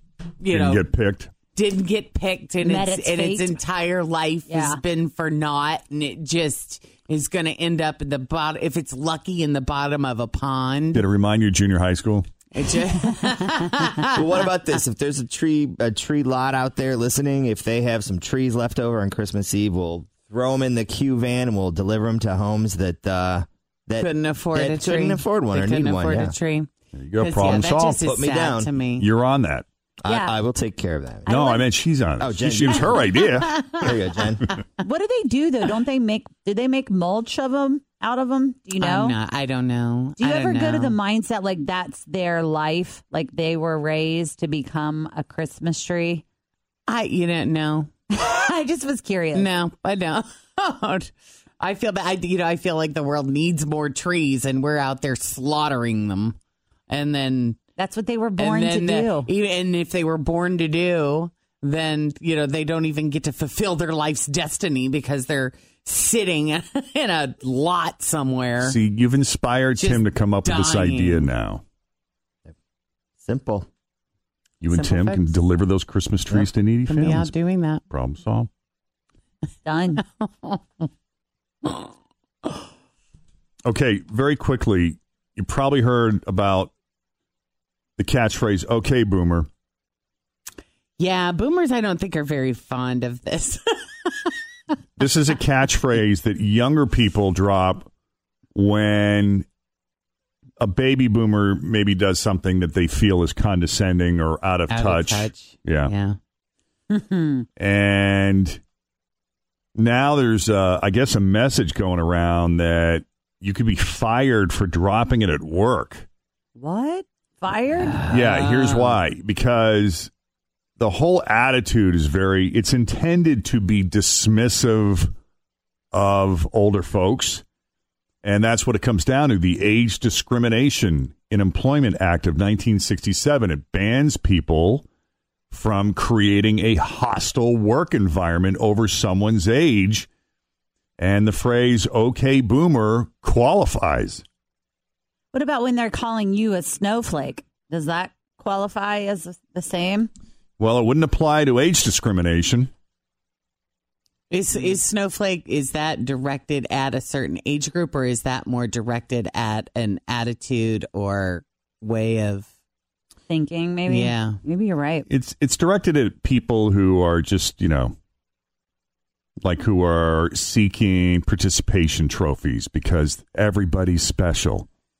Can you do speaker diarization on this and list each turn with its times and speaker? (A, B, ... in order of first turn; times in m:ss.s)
0:00.4-0:00.8 A
0:00.5-0:01.3 B
0:01.5-0:11.0 A
0:02.6-0:03.6 C
0:04.5-0:04.8 C
0:10.9-0:12.3 B
0:12.5-0:14.1 A
0:14.1-0:26.4 D
0:24.0-0:29.1 A
0:26.9-0:28.0 B
0:28.0-0:28.7 D
0:29.0-0:29.6 B
0:30.0-0:31.4 D
0:30.0-0:30.3 C
0:31.3-0:31.6 C
0:31.3-0:33.7 B
0:32.2-0:34.5 D
0:34.8-0:39.2 C
0:38.8-0:41.0 A
0:40.2-0:46.2 C
0:46.9-0:47.9 A
0:48.1-0:49.5 C
0:49.3-0:56.4 A
0:56.9-0:57.6 A
0:57.8-0:59.3 C
0:58.4-1:08.8 A
1:08.6-1:11.6 B
1:09.8-1:11.3 A
1:13.2-1:13.7 D
1:14.6-1:17.3 B
1:14.7-1:15.4 A
1:16.3-1:17.8 A
1:17.9-1:18.5 B
1:19.6-1:20.0 C
1:20.2-1:20.8 A
1:23.6-1:26.7 B
1:28.0-1:29.5 B
1:31.0-1:34.3 A
1:35.0-1:37.9 B
1:38.5-1:39.4 B
1:40.6-1:45.9 B
1:44.7-1:46.2 A
1:46.9-1:47.4 C
1:47.6-1:48.6 B
1:49.8-1:56.1 B
1:56.6-1:58.0 C
1:58.1-1:58.9 A
1:58.1-2:00.1 B
2:00.8-2:05.1 B
2:05.9-2:07.4 B
2:08.2-2:14.9 B
2:15.5-2:20.1 B
2:21.0-2:24.2 B
2:25.3-2:30.1 C
2:30.6-2:32.7 B
2:34.3-2:42.5 A
2:43.3-2:45.1 C
2:43.9-2:44.4 A
2:45.1-2:47.9 B
2:49.4-2:54.7 B